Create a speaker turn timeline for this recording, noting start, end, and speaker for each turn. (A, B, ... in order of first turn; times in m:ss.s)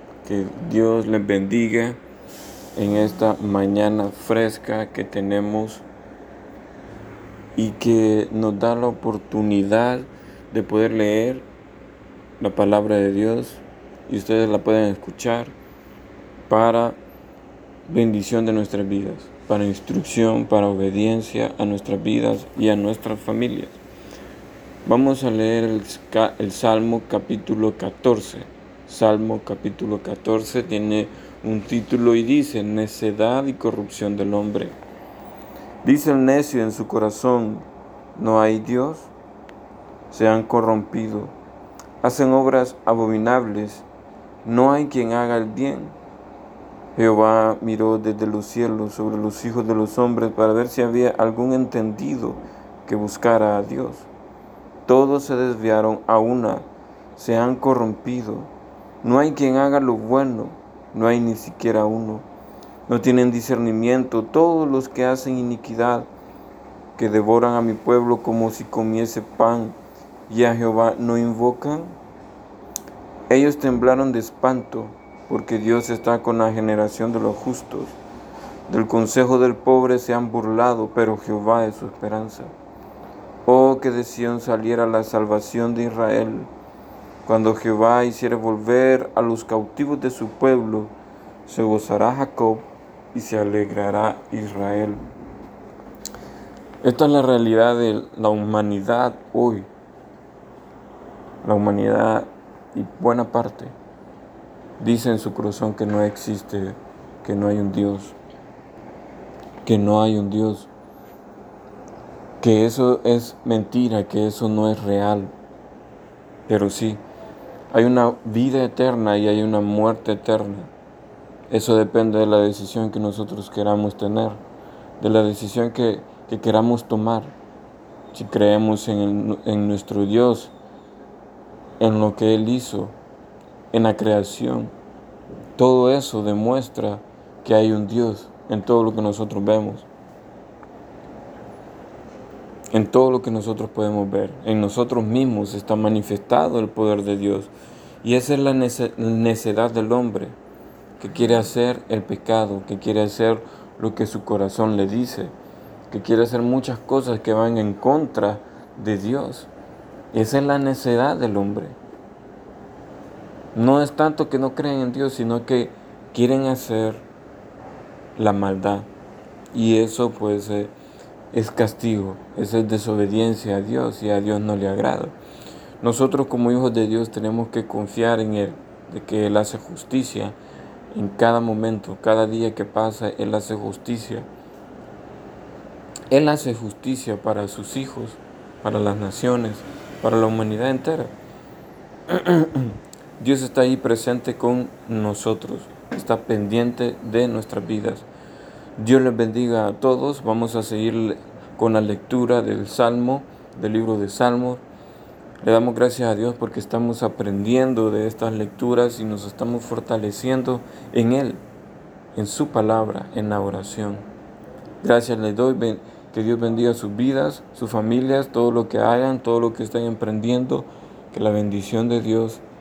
0:00.2-0:02.0 A
0:02.8-0:05.8 A
0:07.6-0:11.5 A
0:12.4-0:15.6 A
0:16.5-0:17.0 A
0:17.9-0:23.8 A
0:24.8-0:34.8 A
0:35.8-0:39.1 A
0:40.1-0:41.4 A
0:42.0-0:43.9 A
0:44.4-0:46.0 A
0:47.0-0:54.1 A
0:54.9-0:58.5 A
0:59.0-1:02.3 A
1:02.9-1:06.1 A
1:07.0-1:09.8 A
1:10.3-1:12.0 A
1:13.3-1:18.0 A
1:18.7-1:22.5 A
1:23.5-1:26.5 A
1:27.2-1:30.9 A
1:31.5-1:35.0 A
1:36.8-1:39.7 A
1:41.4-1:43.8 A
1:44.8-1:48.2 A
1:49.6-1:50.7 A
1:52.4-1:55.3 A
1:56.5-1:57.0 A
1:57.7-2:00.7 A
2:01.5-2:04.4 A
2:05.0-2:07.4 A
2:08.1-2:10.5 A
2:11.8-2:13.0 A
2:13.7-2:14.7 A
2:15.6-2:19.9 A
2:22.7-2:27.5 A
2:28.0-2:30.4 A
2:31.0-2:35.3 A
2:35.9-2:39.5 A
2:40.1-2:41.8 A
2:43.5-2:47.1 A
2:48.2-2:48.9 A
2:49.5-2:50.7 A
2:51.3-2:55.2 A
2:55.8-3:00.4 A
3:00.9-3:04.3 A
3:06.1-3:11.2 A
3:12.1-3:18.1 A
3:18.8-3:24.6 A
3:25.4-3:31.4 A
3:32.1-3:34.1 A
3:34.8-3:42.4 A